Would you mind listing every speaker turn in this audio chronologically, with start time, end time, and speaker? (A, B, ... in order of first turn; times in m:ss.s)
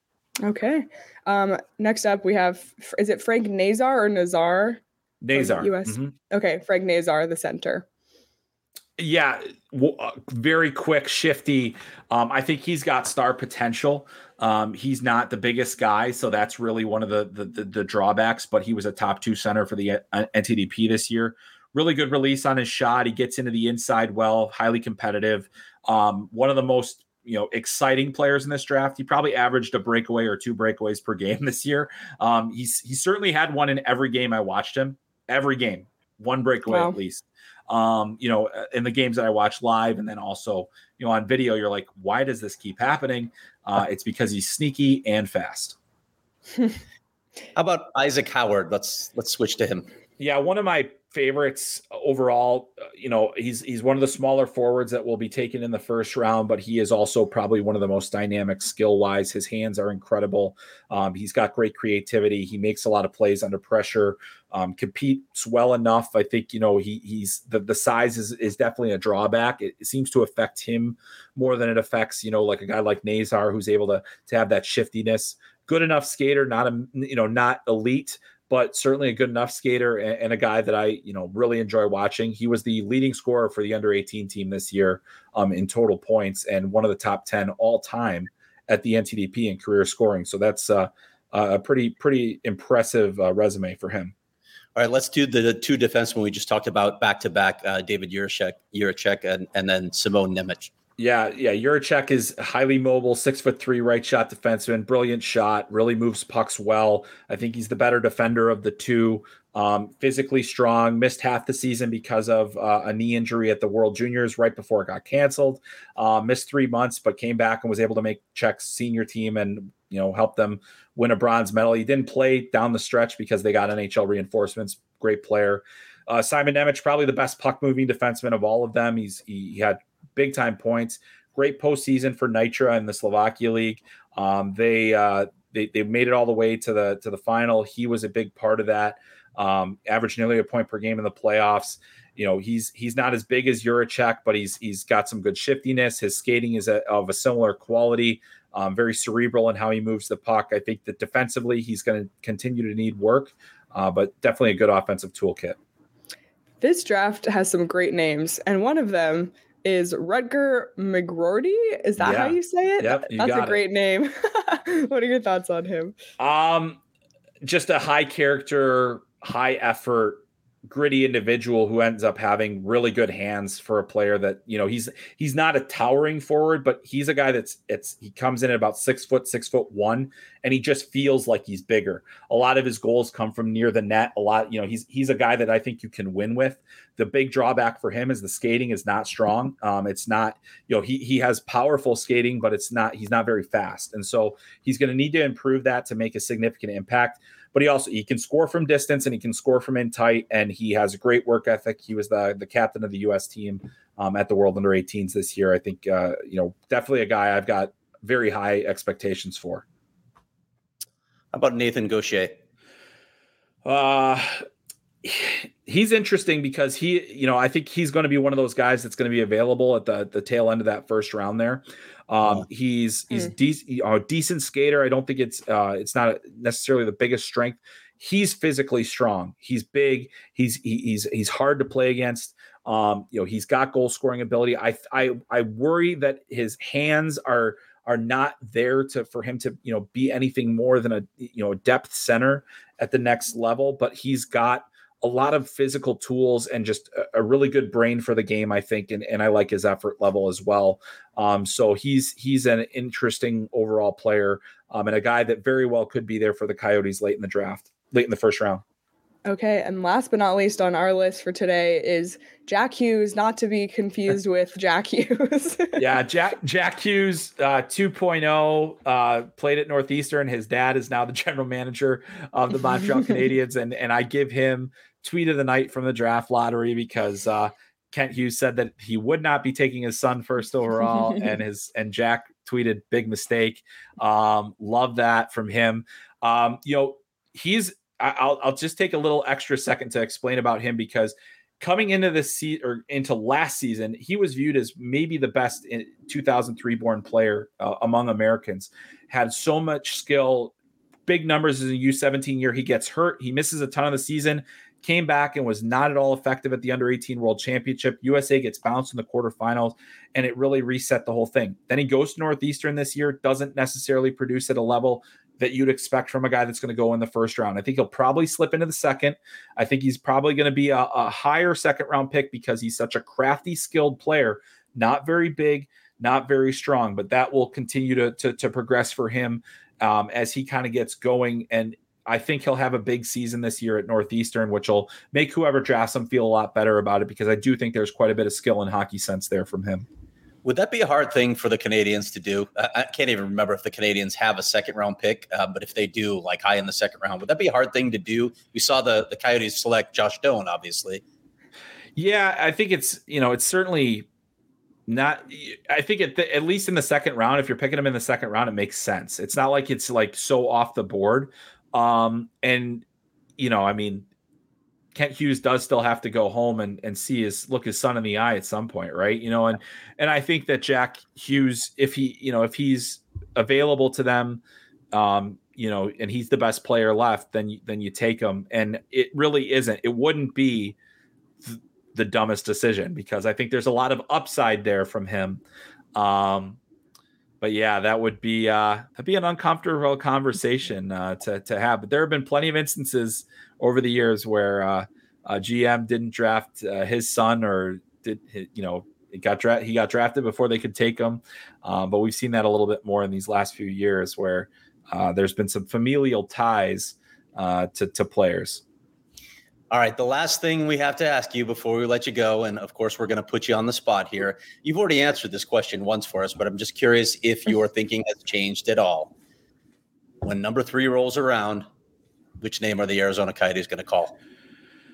0:00.4-0:04.8 A
0:05.2-0:06.1 B
0:05.3-0:07.9 A
0:09.0-0:45.8 B
0:36.7-0:37.0 A
0:47.6-0:49.9 C
0:50.2-1:34.1 B
1:34.8-1:40.7 C
1:41.0-2:35.6 B
2:36.6-2:45.9 A
2:42.0-2:43.6 B
2:46.2-2:46.8 B
2:47.4-3:29.6 B
3:31.3-3:32.4 C
3:33.6-3:34.4 B
3:35.0-4:18.6 B
4:19.3-4:25.8 A
4:25.8-5:00.6 B
5:01.1-5:39.9 B
5:40.4-5:51.0 C
5:52.0-5:54.1 B
5:54.9-6:02.8 B
6:03.4-6:04.1 B
6:05.0-6:20.8 B
6:21.4-6:25.4 B
6:26.0-6:26.6 B
6:27.4-6:48.6 B
6:49.7-6:59.1 C
7:00.2-7:01.7 C
7:02.4-7:04.2 C